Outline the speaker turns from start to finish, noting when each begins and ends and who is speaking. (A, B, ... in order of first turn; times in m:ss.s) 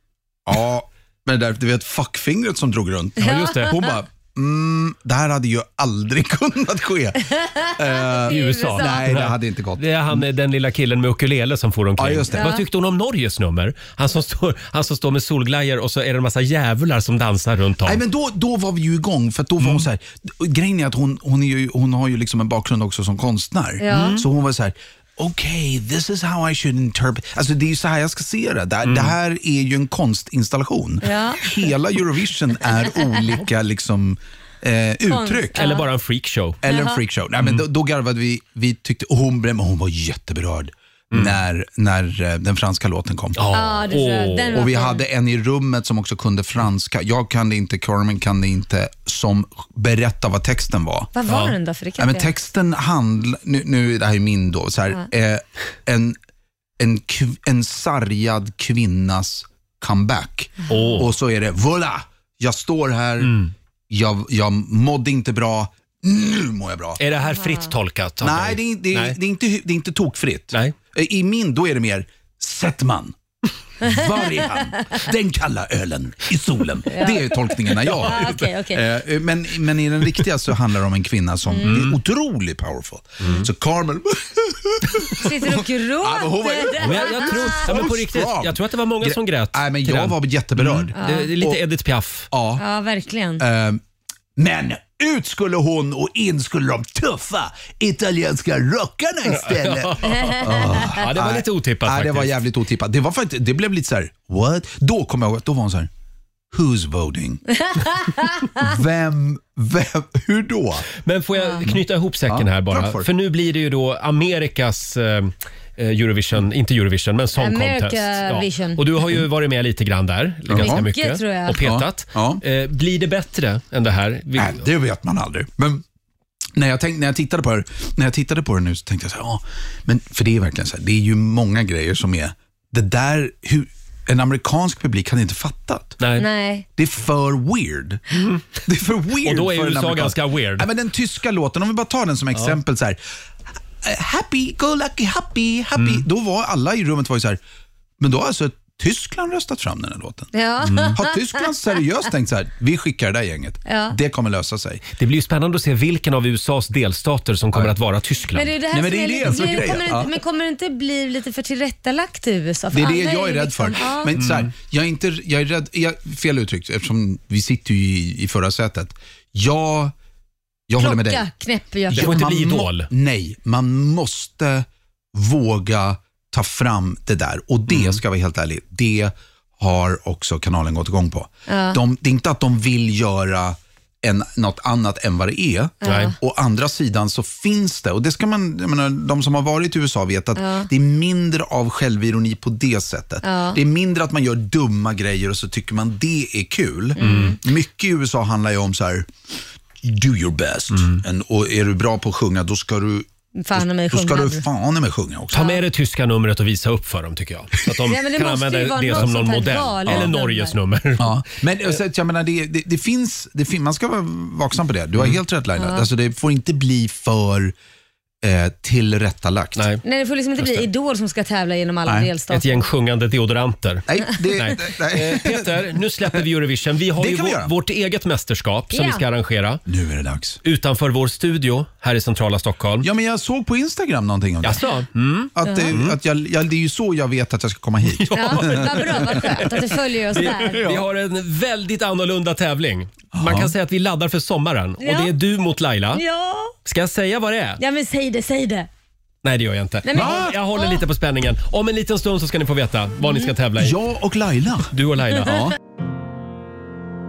0:00.5-0:10.2 A
0:03.2-0:03.8 B
0:03.2-0:03.6 C
0:07.3-0:09.0 C
0:08.2-0:18.0 B
0:12.0-0:12.6 A
0:12.3-0:12.6 C
0:17.8-0:35.6 A
0:19.6-0:19.9 B
0:23.8-0:24.2 C
0:23.9-0:24.3 B
0:28.8-0:29.2 B
0:31.0-0:31.4 C
0:35.1-0:35.8 C
0:35.6-0:36.6 B
0:36.6-0:43.4 A
0:36.7-0:37.0 C
0:41.1-0:41.4 B
0:43.4-0:44.6 B
0:43.5-0:45.0 C
0:44.5-0:51.1 A
0:51.1-0:52.3 C
0:51.3-0:51.6 B
0:52.0-0:56.2 A
0:56.8-1:03.3 A
1:00.7-1:01.0 C
1:00.7-1:01.1 B
1:03.2-1:03.5 B
1:03.9-1:07.0 A
1:07.0-1:09.2 B
1:07.4-1:07.7 C
1:08.2-1:13.2 A
1:13.8-1:31.6 A
1:16.9-1:17.3 C
1:17.9-1:18.4 B
1:17.9-1:18.8 C
1:21.6-1:22.0 B
1:23.2-1:23.5 B
1:25.2-1:27.7 C
1:26.8-1:32.3 B
1:31.0-1:31.3 C
1:32.3-1:32.6 A
1:32.6-1:33.4 C
1:33.4-1:33.8 A
1:34.4-1:45.9 A
1:39.3-1:42.3 B
1:40.1-1:40.9 C
1:46.5-1:47.4 A
1:47.6-1:48.6 C
1:48.6-1:50.9 A
1:51.0-2:04.6 B
1:51.4-1:51.6 C
1:51.7-1:53.1 A
1:57.4-1:58.8 C
2:00.5-2:00.8 A
2:00.6-2:01.6 C
2:01.6-2:02.4 A
2:04.4-2:05.8 A
2:06.6-2:16.0 A
2:16.0-2:16.3 B
2:16.2-2:16.7 C
2:16.8-2:23.0 A
2:18.2-2:18.4 B
2:19.2-2:20.7 B
2:23.8-2:27.4 A
2:25.8-2:26.0 B
2:28.0-2:34.9 A
2:30.3-2:31.5 C
2:30.6-2:31.0 B
2:33.7-2:34.0 C
2:35.0-2:38.5 B
2:38.4-2:44.1 C
2:38.7-2:40.1 A
2:42.7-2:49.9 A
2:44.2-2:44.5 B
2:50.7-2:51.3 A
2:50.8-2:52.2 C
2:51.9-3:19.1 A
2:52.0-2:52.9 B
2:57.7-2:58.0 B
3:01.5-3:01.8 C
3:05.8-3:06.2 C
3:05.8-3:06.1 B
3:10.4-3:10.7 C
3:13.2-3:13.6 C
3:17.0-3:17.4 C
3:17.0-3:17.4 B
3:19.8-3:25.6 A
3:20.7-3:21.0 B
3:23.4-3:24.4 C
3:25.3-3:31.2 B
3:27.9-3:30.6 C
3:29.9-3:30.1 A
3:31.0-3:37.6 A
3:35.6-3:35.9 C
3:38.2-3:39.7 A
3:39.6-3:39.8 B
3:39.8-3:42.7 C
3:40.4-3:40.7 B
3:41.9-3:42.1 A
3:42.3-3:49.6 B
3:43.9-3:45.8 A
3:47.0-3:47.5 A
3:48.7-3:49.0 C
3:49.7-3:50.4 A
3:50.4-3:52.9 B
3:52.8-3:54.6 A
3:54.4-3:56.0 B
3:55.4-3:59.5 A
3:55.4-3:55.7 C
3:57.9-4:06.0 B
3:58.1-4:00.7 C
4:03.1-4:03.5 A
4:04.8-4:05.1 C
4:05.9-4:06.6 C
4:06.6-4:07.6 B
4:07.6-4:08.7 C
4:09.2-4:13.8 B
4:09.8-4:10.8 C
4:09.9-4:10.4 A
4:13.6-4:15.6 A
4:14.7-4:15.5 B